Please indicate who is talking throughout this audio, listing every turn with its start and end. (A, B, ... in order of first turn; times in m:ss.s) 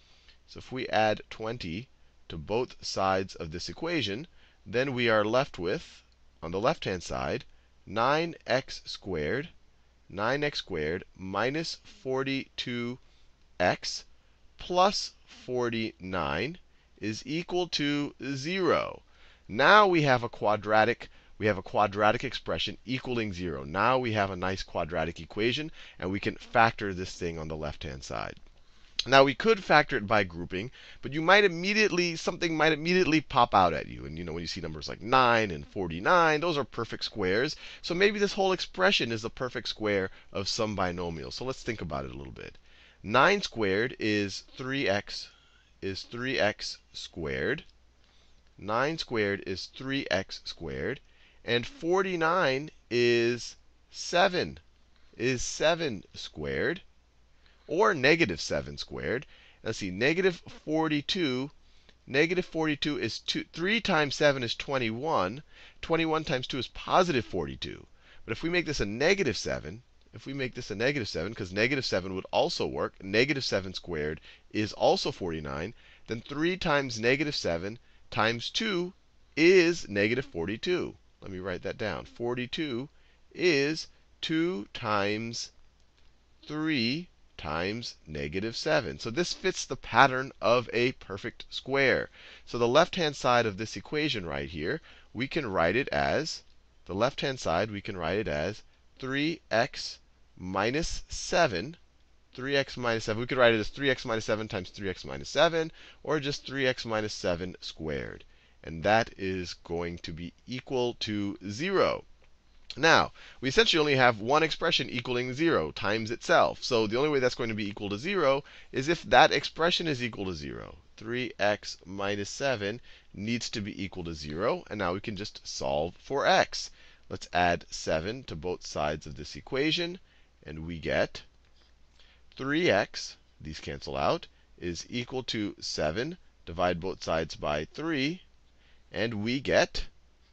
0:00.5-0:09.5 A
0:10.1-0:13.0 A
0:13.6-0:14.0 A
0:14.6-0:28.4 A
0:29.1-0:47.6 A
0:48.6-0:54.6 A
0:55.2-0:56.8 A
0:57.7-1:01.5 A
1:02.1-1:25.5 A
1:26.4-1:41.8 A
1:42.3-1:52.0 A
1:52.8-2:11.2 A
2:12.3-2:18.2 A
2:18.9-2:19.9 A